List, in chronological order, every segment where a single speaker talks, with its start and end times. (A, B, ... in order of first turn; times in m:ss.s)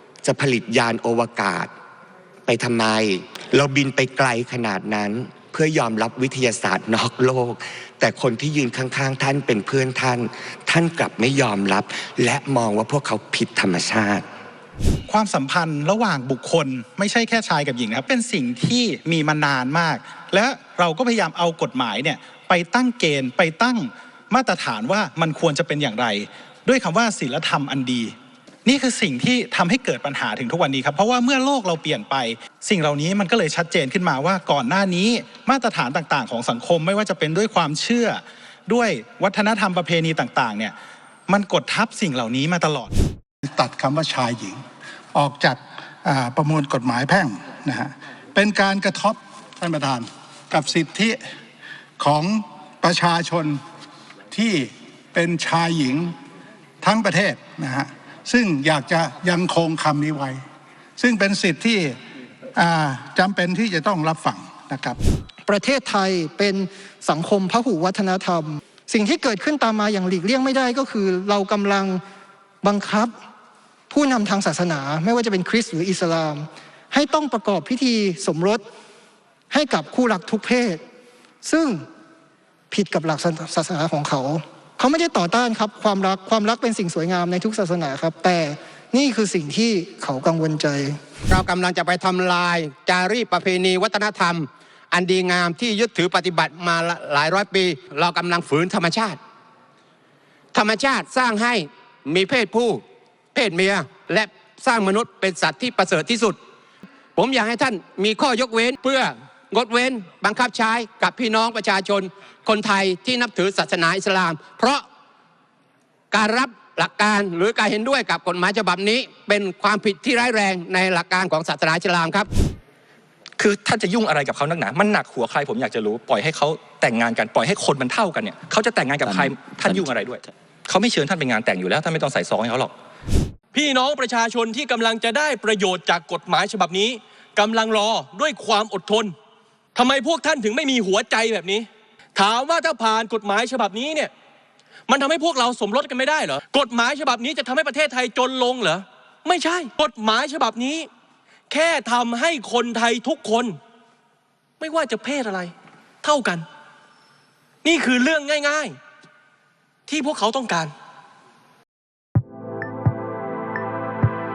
0:00.2-0:01.7 A
0:02.5-0:14.3 A
0:15.1-0:28.1 B
0:28.6-0:40.8 B
0:41.3-0:42.9 B
0:43.5-0:44.6 C
0:45.1-0:51.2 C
0:52.0-0:53.6 C
0:54.3-0:56.1 C
0:56.8-1:00.4 C
1:01.0-1:02.0 C
1:02.6-1:05.0 C
1:05.5-1:12.0 D
1:12.6-1:13.1 D
1:13.9-1:18.6 D
1:19.5-1:20.8 D
1:21.4-1:21.9 D
1:22.7-1:31.0 D
1:31.3-1:39.2 E
1:40.5-1:46.4 E
1:47.2-1:54.9 E
1:56.1-2:02.3 E
2:03.4-2:12.7 F
2:13.5-2:19.1 G
2:19.8-2:24.1 G
2:24.9-2:30.9 G
2:31.5-2:33.6 G
2:34.6-2:36.5 G
2:37.6-2:38.8 G
2:39.9-2:40.7 G